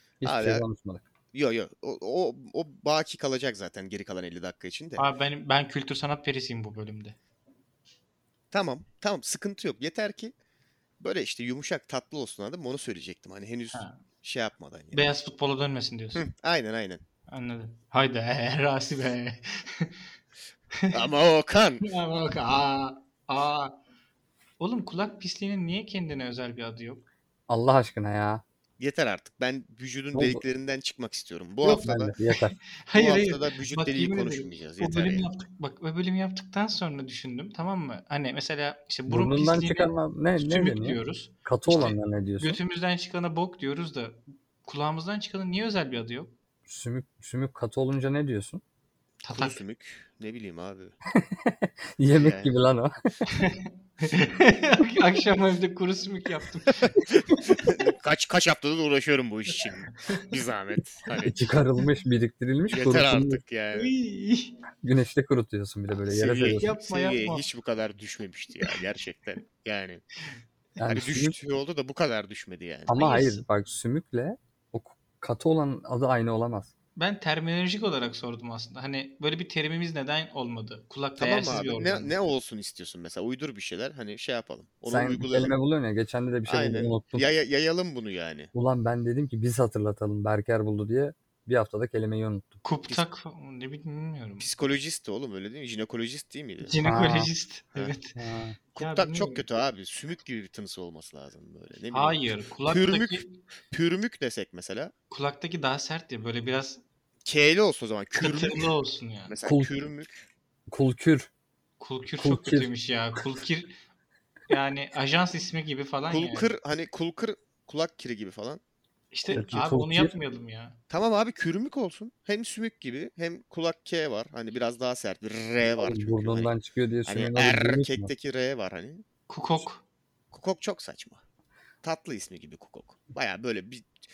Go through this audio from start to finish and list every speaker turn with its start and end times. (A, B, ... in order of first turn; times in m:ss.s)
0:00.2-0:01.0 A
0:00.2-0:00.6 B
0:01.3-0:05.0 B
0:05.0-0:07.2 C
0:08.5-0:10.3 B
0:11.0-0:15.1 B
0:13.7-0:14.0 C
0:14.9-0:16.2 C
0:16.1-0:17.0 B
0:17.3-0:19.9 C
0:20.9-0:21.9 B
0:21.8-0:23.8 C
0:24.6-0:27.0 C
0:27.5-0:28.4 A
0:28.8-0:32.1 B
0:30.1-0:30.4 A
0:31.6-0:32.6 A
0:32.8-0:46.3 C
0:32.9-0:35.3 B
0:39.1-0:42.6 A
0:41.7-0:41.9 B
0:46.7-0:48.6 A
0:49.2-0:49.6 C
0:49.3-0:51.0 B
0:51.1-0:53.0 A
0:52.2-0:52.5 B
0:53.3-0:57.6 C
0:56.9-1:01.4 B
1:01.2-1:03.4 A
1:02.7-1:03.9 B
1:03.7-1:04.6 C
1:04.8-1:06.7 A
1:06.1-1:10.0 B
1:06.6-1:07.4 C
1:10.8-1:11.4 A
1:10.9-1:13.0 B
1:12.9-1:16.7 A
1:12.9-1:13.4 C
1:17.0-1:22.1 C
1:21.2-1:25.5 B
1:24.9-1:27.2 A
1:26.4-1:28.5 B
1:28.5-1:32.6 A
1:32.6-1:34.5 C
1:34.4-1:36.8 B
1:36.6-1:38.2 C
1:36.8-1:37.3 A
1:38.2-1:38.6 A
1:38.7-1:44.9 B
1:38.8-1:39.4 C
1:41.9-1:43.3 C
1:45.1-1:46.8 C
1:47.2-1:48.7 B
1:48.2-1:49.3 C
1:49.3-1:50.2 B
1:50.7-1:51.3 A
1:51.8-1:53.8 C
1:52.2-1:52.7 A
1:54.5-1:56.5 C
1:56.1-1:58.6 B
1:59.1-2:00.8 C
1:59.3-2:00.1 A
2:00.9-2:06.5 B
2:05.8-2:08.1 A
2:07.0-2:09.0 B
2:09.3-2:09.8 C
2:10.3-2:11.2 B
2:11.8-2:13.9 B